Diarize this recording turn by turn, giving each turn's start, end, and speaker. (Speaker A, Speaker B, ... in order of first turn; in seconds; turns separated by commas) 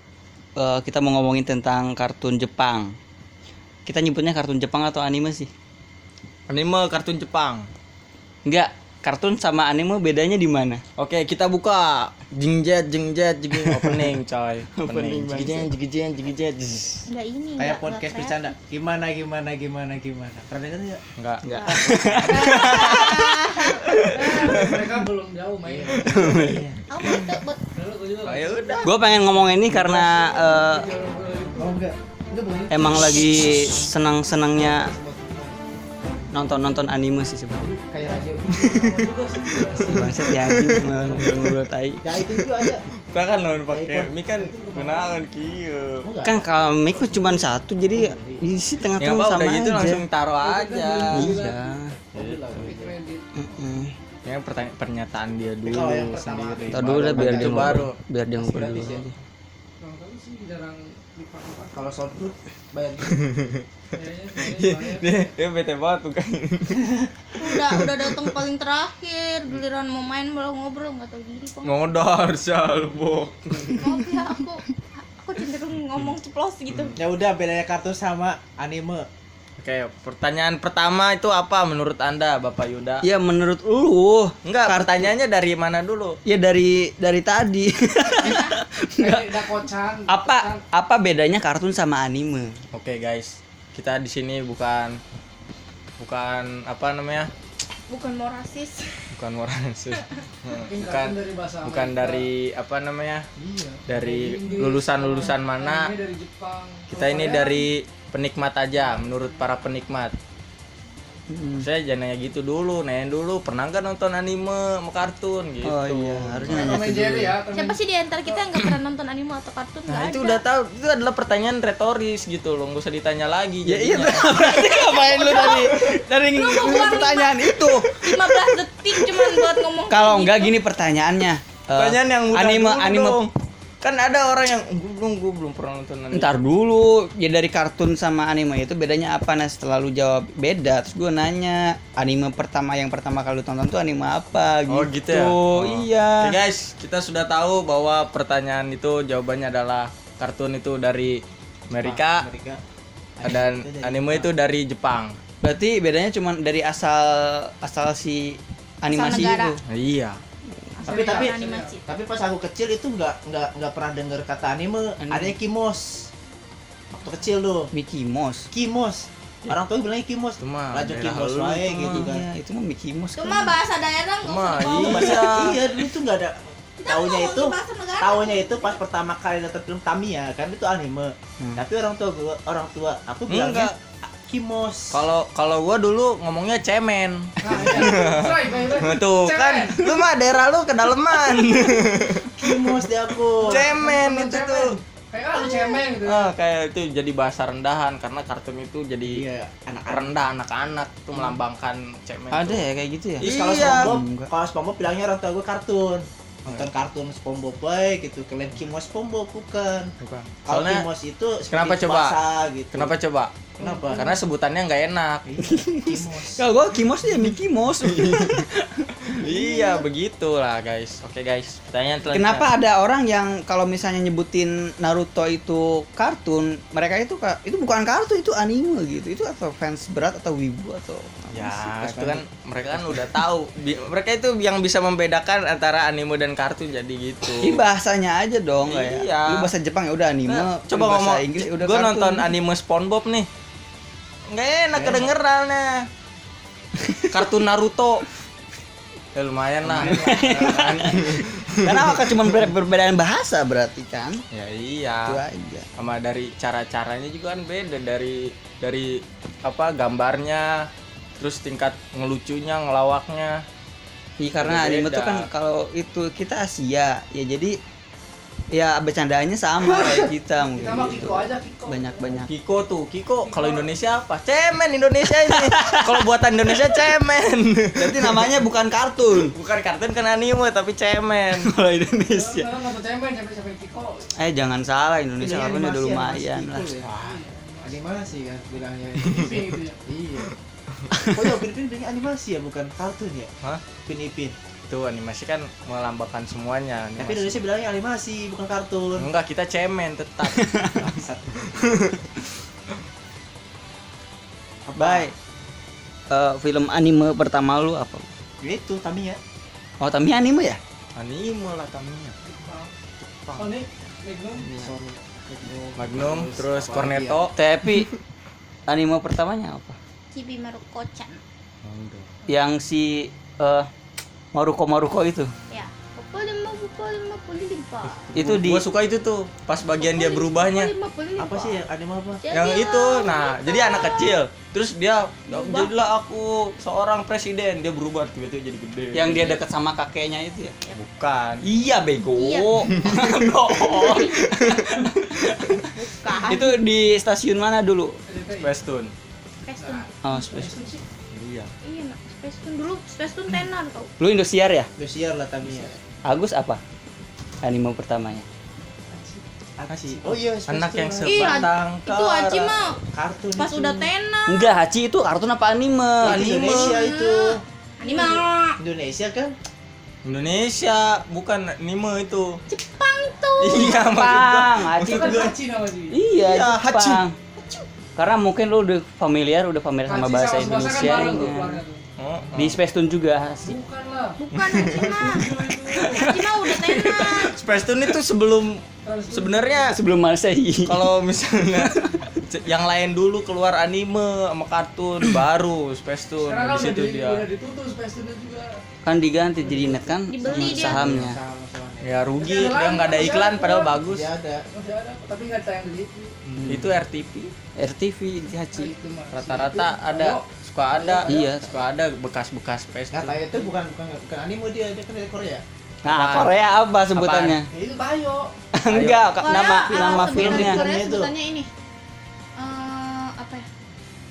Speaker A: 0.6-3.0, Speaker A: 3.9-5.5, Speaker B: 6.5-7.6, Speaker A: 8.4-10.8, Speaker B: 11.0-17.1, Speaker A: 13.6-14.2, Speaker A: 14.8-15.7, Speaker C: 17.1-18.5, Speaker D: 17.6-21.0, Speaker B: 21.2-23.1, Speaker A: 21.4-24.2, Speaker C: 21.4-23.7, Speaker B: 23.9-24.7, Speaker E: 24.0-26.4, Speaker D: 25.6-26.8, Speaker A: 26.1-26.6, Speaker C: 26.9-27.6, Speaker E: 27.7-28.8, Speaker B: 28.2-28.9, Speaker A: 28.8-30.9, Speaker D: 29.7-30.2, Speaker E: 30.0-31.8, Speaker D: 31.6-33.9, Speaker A: 32.7-34.9, Speaker D: 34.4-35.6, Speaker A: 36.3-37.7, Speaker D: 37.6-38.9, Speaker E: 38.0-40.4, Speaker B: 39.8-41.5, Speaker A: 39.9-42.3, Speaker D: 40.7-41.4, Speaker D: 42.0-42.8, Speaker B: 43.1-46.0, Speaker D: 43.7-45.2, Speaker D: 46.0-48.4, Speaker A: 46.2-50.0, Speaker B: 49.0-51.4, Speaker E: 50.4-51.7, Speaker A: 51.1-52.0, Speaker D: 52.1-53.0, Speaker B: 52.1-52.7, Speaker E: 52.6-53.3, Speaker A: 53.4-53.9, Speaker B: 54.2-57.9, Speaker D: 55.6-59.1, Speaker A: 56.7-59.1, Speaker E: 59.8-61.9, Speaker D: 61.7-63.2, Speaker B: 63.0-63.6, Speaker E: 63.9-65.2, Speaker B: 64.4-68.3, Speaker C: 67.3-71.7, Speaker B: 71.6-73.8, Speaker A: 73.7-74.2, Speaker C: 73.8-77.0, Speaker D: 77.0-79.1, Speaker B: 79.6-83.0, Speaker A: 83.0-85.1, Speaker B: 84.4-86.2, Speaker A: 86.2-89.5, Speaker C: 88.2-88.5, Speaker E: 89.0-90.6, Speaker A: 90.1-92.5, Speaker B: 92.7-95.0, Speaker B: 96.0-97.3, Speaker C: 97.9-99.1, Speaker B: 99.1-103.2, Speaker E: 100.6-102.3, Speaker E: 103.5-107.6, Speaker B: 103.9-105.9, Speaker B: 106.9-110.1, Speaker E: 108.7-109.5, Speaker A: 111.3-111.7, Speaker B: 111.6-117.0, Speaker A: 115.6-117.3, Speaker E: 116.5-118.4, Speaker C: 117.5-120.4, Speaker B: 119.9-124.3, Speaker A: 123.6-133.3, Speaker C: 124.2-125.8, Speaker B: 125.5-125.9, Speaker C: 126.3-130.5, Speaker B: 131.8-133.3, Speaker B: 133.8-136.4, Speaker A: 136.1-146.4, Speaker B: 144.7-152.2, Speaker D: 151.8-152.6, Speaker D: 153.2-154.3, Speaker B: 153.2-155.2, Speaker A: 155.4-159.6, Speaker C: 158.9-159.6, Speaker B: 159.7-160.2, Speaker A: 160.4-161.0, Speaker E: 160.8-161.8, Speaker C: 160.8-161.8, Speaker D: 160.8-166.1, Speaker A: 165.0-165.4, Speaker D: 166.9-167.7, Speaker A: 167.7-168.5, Speaker D: 168.5-172.2, Speaker B: 170.4-172.1, Speaker A: 171.6-173.6, Speaker C: 173.2-175.2, Speaker B: 174.2-175.6, Speaker D: 174.7-185.0, Speaker C: 176.8-178.8, Speaker A: 181.4-181.6, Speaker B: 183.3-183.7, Speaker B: 184.9-192.7, Speaker E: 187.4-189.8, Speaker D: 192.4-193.7, Speaker B: 193.4-194.7, Speaker E: 193.4-196.3, Speaker C: 195.5-195.8, Speaker B: 196.0-199.2, Speaker D: 199.1-200.1, Speaker B: 199.9-202.7, Speaker A: 202.3-204.3, Speaker B: 203.2-204.0, Speaker D: 203.2-209.9, Speaker B: 210.0-210.9, Speaker D: 210.5-212.9, Speaker B: 211.5-212.2, Speaker B: 212.7-215.2, Speaker D: 213.6-214.2, Speaker D: 215.2-216.4, Speaker A: 215.4-219.8, Speaker B: 217.8-218.5, Speaker B: 219.0-222.5, Speaker A: 222.1-232.2, Speaker B: 231.3-237.6, Speaker A: 237.4-242.3, Speaker B: 238.6-239.5, Speaker B: 240.3-243.3, Speaker B: 244.3-245.8, Speaker D: 244.7-245.1, Speaker A: 246.8-247.3, Speaker B: 247.1-248.0, Speaker B: 249.1-252.1, Speaker D: 249.6-251.3, Speaker A: 249.7-254.2, Speaker B: 254.3-255.2, Speaker A: 255.0-255.7, Speaker B: 255.8-263.4, Speaker A: 264.2-267.6, Speaker B: 264.4-265.3, Speaker A: 268.5-272.3, Speaker E: 270.4-272.2, Speaker B: 272.3-278.3, Speaker E: 273.2-273.7, Speaker A: 275.3-276.0, Speaker A: 276.5-276.9, Speaker A: 277.8-279.3, Speaker B: 279.2-281.5, Speaker A: 281.3-282.6, Speaker E: 282.1-284.1, Speaker A: 284.2-286.7, Speaker D: 285.2-286.9, Speaker B: 286.8-287.2, Speaker E: 287.0-287.8, Speaker D: 287.6-290.3, Speaker B: 289.0-289.4, Speaker E: 289.2-289.8, Speaker A: 290.9-291.3, Speaker D: 291.1-294.3, Speaker B: 294.7-297.4, Speaker D: 297.0-299.1, Speaker B: 299.0-300.6, Speaker A: 300.3-300.8, Speaker D: 300.7-302.0, Speaker B: 301.5-301.9, Speaker D: 304.6-305.1, Speaker A: 304.8-305.1, Speaker A: 306.1-308.1, Speaker D: 308.4-309.2, Speaker A: 309.8-310.6, Speaker B: 310.9-312.2, Speaker E: 312.3-312.7, Speaker B: 313.1-313.5, Speaker E: 313.4-314.5, Speaker A: 314.4-314.7, Speaker D: 314.5-317.3, Speaker B: 315.8-317.9, Speaker A: 317.4-317.9, Speaker A: 318.7-319.8, Speaker C: 320.1-321.2, Speaker B: 321.6-322.1, Speaker A: 322.3-323.7, Speaker A: 324.3-325.3, Speaker C: 325.5-328.1, Speaker B: 328.1-330.7, Speaker A: 328.1-328.6, Speaker C: 329.7-331.6, Speaker D: 331.2-332.2, Speaker C: 332.2-334.2, Speaker B: 332.3-339.4, Speaker C: 335.3-335.7, Speaker A: 338.9-340.6, Speaker B: 340.7-341.4, Speaker A: 341.4-348.0, Speaker C: 342.1-342.5, Speaker B: 342.7-344.9, Speaker C: 343.6-344.1, Speaker C: 345.7-346.6, Speaker E: 348.1-348.5, Speaker B: 348.4-348.9, Speaker C: 349.4-349.9, Speaker E: 349.6-350.8, Speaker A: 350.0-350.6, Speaker B: 351.1-351.5, Speaker C: 351.6-353.9, Speaker A: 354.0-354.7, Speaker D: 354.8-355.7, Speaker A: 355.5-356.6, Speaker A: 357.4-358.2, Speaker E: 358.9-359.2, Speaker D: 359.6-361.5, Speaker B: 359.7-362.6, Speaker C: 361.0-362.8, Speaker D: 362.9-363.9, Speaker C: 363.4-364.5, Speaker A: 364.3-366.4, Speaker D: 366.0-367.4, Speaker B: 366.0-366.9, Speaker C: 366.4-368.6, Speaker D: 368.6-369.3, Speaker B: 370.0-372.4, Speaker C: 372.5-373.9, Speaker B: 373.4-375.3, Speaker A: 373.6-375.3, Speaker E: 374.8-376.0, Speaker A: 375.9-377.1, Speaker B: 376.1-377.0, Speaker A: 377.9-381.6, Speaker E: 379.9-381.8, Speaker B: 380.6-381.2, Speaker B: 382.0-382.6, Speaker A: 382.3-383.6, Speaker E: 383.4-386.2, Speaker C: 384.2-385.3, Speaker B: 384.3-389.7, Speaker C: 385.8-387.3, Speaker E: 388.8-389.7, Speaker A: 389.7-390.9, Speaker B: 390.6-397.2, Speaker A: 391.6-392.0, Speaker E: 396.2-398.5, Speaker A: 398.8-401.2, Speaker D: 399.4-399.9, Speaker C: 400.1-400.9, Speaker B: 400.3-401.1, Speaker D: 400.4-401.9, Speaker B: 401.8-404.1, Speaker E: 402.2-403.8, Speaker D: 403.8-404.5, Speaker E: 404.5-406.1, Speaker D: 406.3-406.6, Speaker B: 406.3-407.3, Speaker A: 406.4-406.7, Speaker A: 407.6-408.7, Speaker E: 408.5-410.2, Speaker B: 409.1-413.2, Speaker E: 410.8-411.1, Speaker A: 411.1-411.6, Speaker D: 412.9-415.4, Speaker B: 415.8-416.4, Speaker A: 415.8-417.5, Speaker B: 416.9-417.4, Speaker E: 417.5-418.3, Speaker A: 418.5-420.6, Speaker B: 418.7-419.0, Speaker C: 419.2-421.5, Speaker D: 419.7-421.1, Speaker C: 422.4-423.4